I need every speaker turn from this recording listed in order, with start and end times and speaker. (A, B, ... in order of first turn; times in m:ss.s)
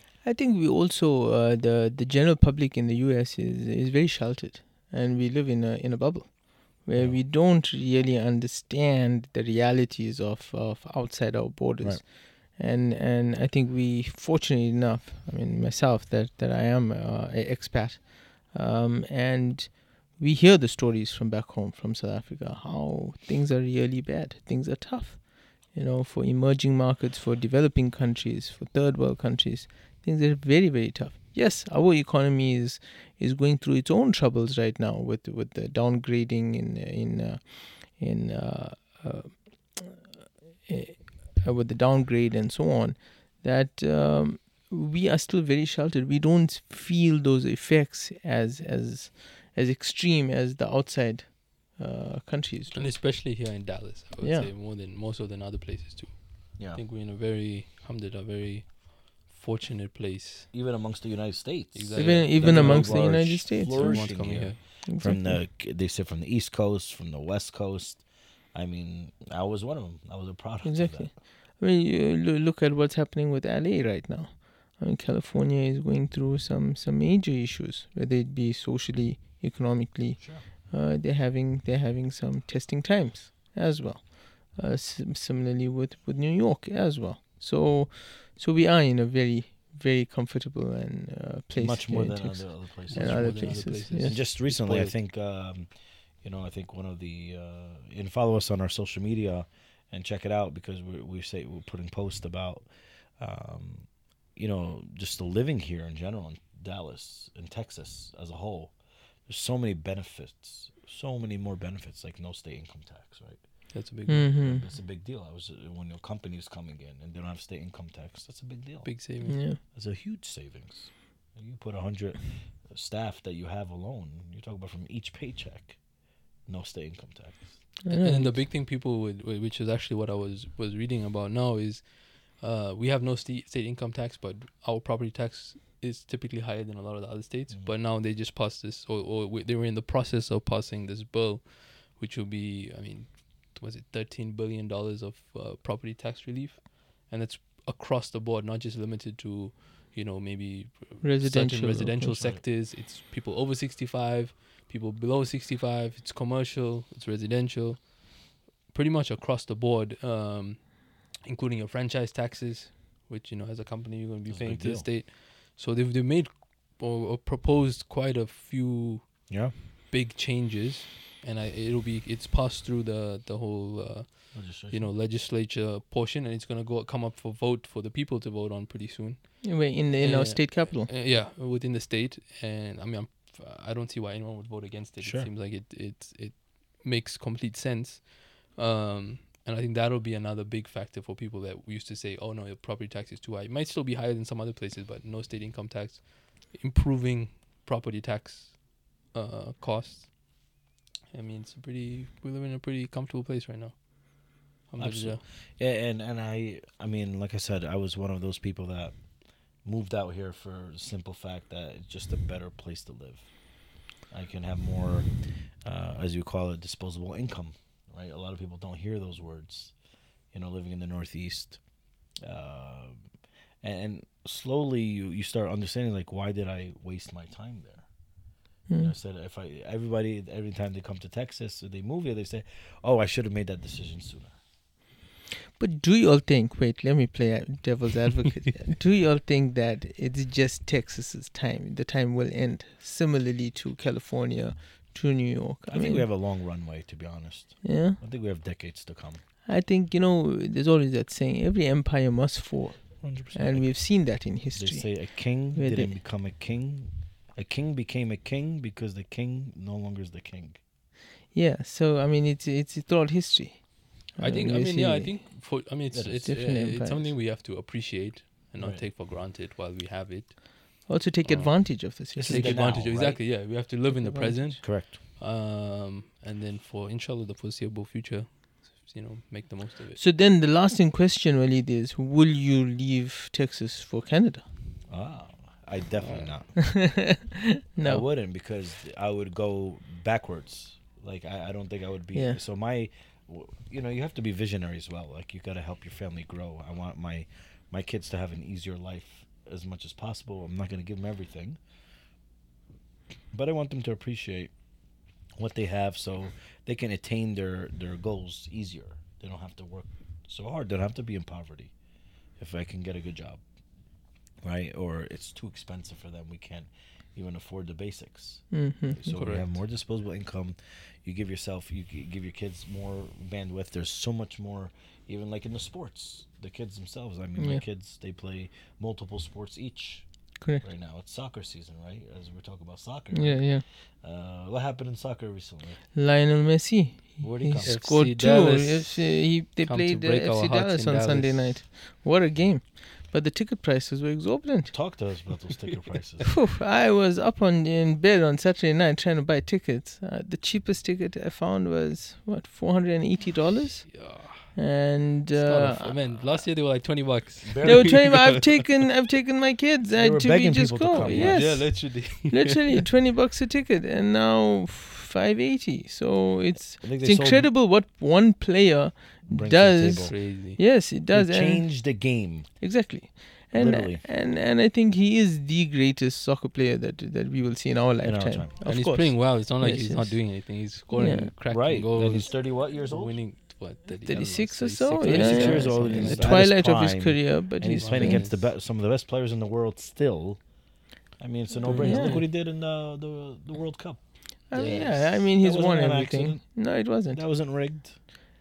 0:00.2-0:53.1 A
0:06.9-0:07.2 B
0:52.7-1:00.5 C
0:54.2-0:54.5 A
0:56.6-0:56.8 B
1:00.5-1:11.1 B
1:01.7-1:04.8 C
1:01.9-1:05.4 A
1:10.6-1:34.2 A
1:20.2-1:20.4 B
1:31.5-1:53.7 B
1:32.9-1:35.0 C
1:53.7-1:54.4 C
1:54.1-1:54.6 A
1:54.4-2:05.9 B
1:58.8-1:59.4 C
1:59.2-1:59.6 A
2:06.4-2:07.7 B
2:07.8-2:08.4 A
2:07.9-3:20.6 C
2:31.0-2:32.2 A
2:32.1-2:32.4 B
2:44.2-2:44.9 B
2:49.3-2:49.5 B
2:54.3-2:54.9 B
2:59.4-3:00.9 A
3:05.0-3:05.3 B
3:21.1-3:25.2 C
3:24.8-3:39.8 B
3:40.3-3:43.0 B
3:43.6-3:47.9 B
3:48.7-3:48.9 A
3:48.8-3:54.4 B
3:55.6-4:06.1 A
4:05.7-4:09.2 B
4:07.6-4:08.0 A
4:09.4-4:16.0 A
4:13.0-4:20.6 B
4:21.3-4:25.6 A
4:24.2-4:40.0 C
4:25.9-4:26.3 B
4:26.2-4:27.2 A
4:28.6-4:28.9 B
4:30.8-4:32.7 A
4:32.1-4:33.2 B
4:33.9-4:34.5 A
4:34.6-4:35.0 B
4:40.0-4:44.5 A
4:44.9-4:46.7 B
4:46.0-4:46.3 C
4:46.6-4:48.0 A
4:47.8-5:01.6 B
4:52.1-4:52.4 A
5:03.3-5:04.5 B
5:05.4-5:11.7 B
5:12.4-5:13.4 B
5:14.4-5:35.8 B
5:18.5-5:19.0 A
5:19.1-5:19.5 C
5:27.4-5:27.6 A
5:30.4-5:30.6 A
5:33.1-5:33.6 A
5:35.9-5:44.7 A
5:37.2-5:37.9 B
5:37.6-5:41.6 C
5:44.7-5:46.5 B
5:46.3-5:56.2 A
5:53.9-5:54.6 C
5:55.3-5:58.6 C
5:57.4-5:58.2 B
5:57.6-6:21.3 A
5:59.9-6:01.6 B
6:00.9-6:02.8 C
6:06.8-6:07.5 B
6:09.3-6:10.4 B
6:10.0-6:10.6 C
6:11.1-6:12.7 B
6:13.5-6:14.0 B
6:18.0-6:18.5 B
6:18.6-6:26.5 C
6:21.5-6:23.2 B
6:24.0-6:28.2 A
6:25.0-6:38.0 B
6:27.6-6:28.5 C
6:31.6-6:32.3 C
6:31.7-6:32.2 A
6:34.5-6:37.2 A
6:34.5-6:35.1 C